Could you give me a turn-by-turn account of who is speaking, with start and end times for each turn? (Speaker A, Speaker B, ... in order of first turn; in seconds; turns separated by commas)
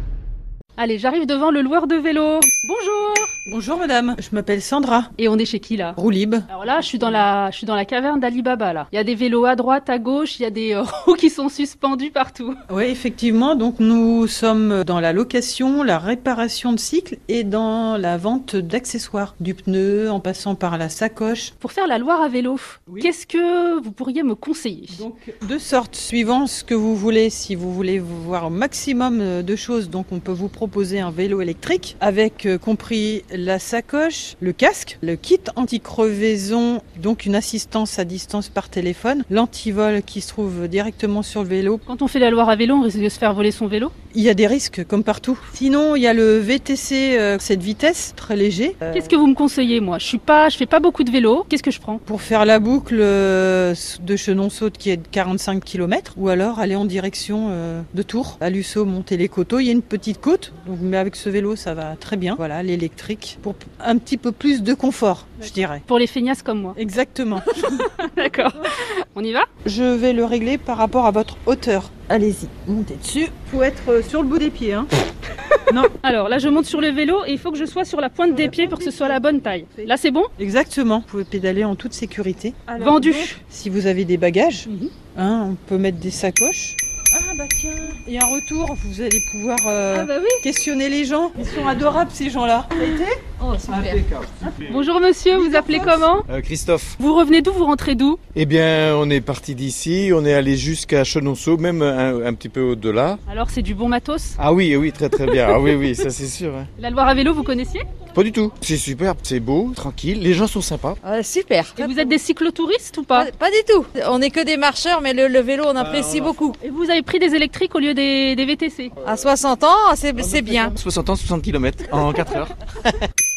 Speaker A: 0.8-3.3, Speaker B: 3.5-5.1, Speaker A: 5.2-6.0, Speaker B: 6.0-7.2, Speaker A: 6.5-12.6, Speaker B: 12.7-21.5, Speaker A: 21.6-25.0, Speaker B: 24.9-41.8, Speaker A: 41.9-43.9, Speaker B: 44.1-49.1, Speaker A: 48.9-52.0, Speaker B: 52.1-65.8, Speaker A: 65.9-66.8, Speaker B: 66.8-67.9, Speaker A: 67.5-69.5, Speaker B: 69.6-74.9, Speaker A: 76.0-80.3, Speaker B: 78.3-93.3, Speaker A: 82.8-83.4, Speaker A: 84.7-84.9, Speaker A: 89.9-90.4, Speaker C: 93.4-94.0, Speaker D: 93.7-94.4, Speaker A: 94.7-96.3, Speaker C: 95.4-95.8, Speaker D: 96.2-97.0, Speaker A: 97.0-98.2, Speaker D: 98.3-103.2, Speaker A: 103.3-104.4, Speaker D: 104.4-106.7, Speaker A: 106.8-107.8, Speaker D: 108.1-111.0, Speaker C: 111.0-111.9, Speaker A: 111.8-113.3, Speaker C: 113.1-116.6, Speaker D: 115.8-116.4, Speaker A: 116.6-118.9, Speaker C: 119.0-120.8, Speaker D: 120.2-123.0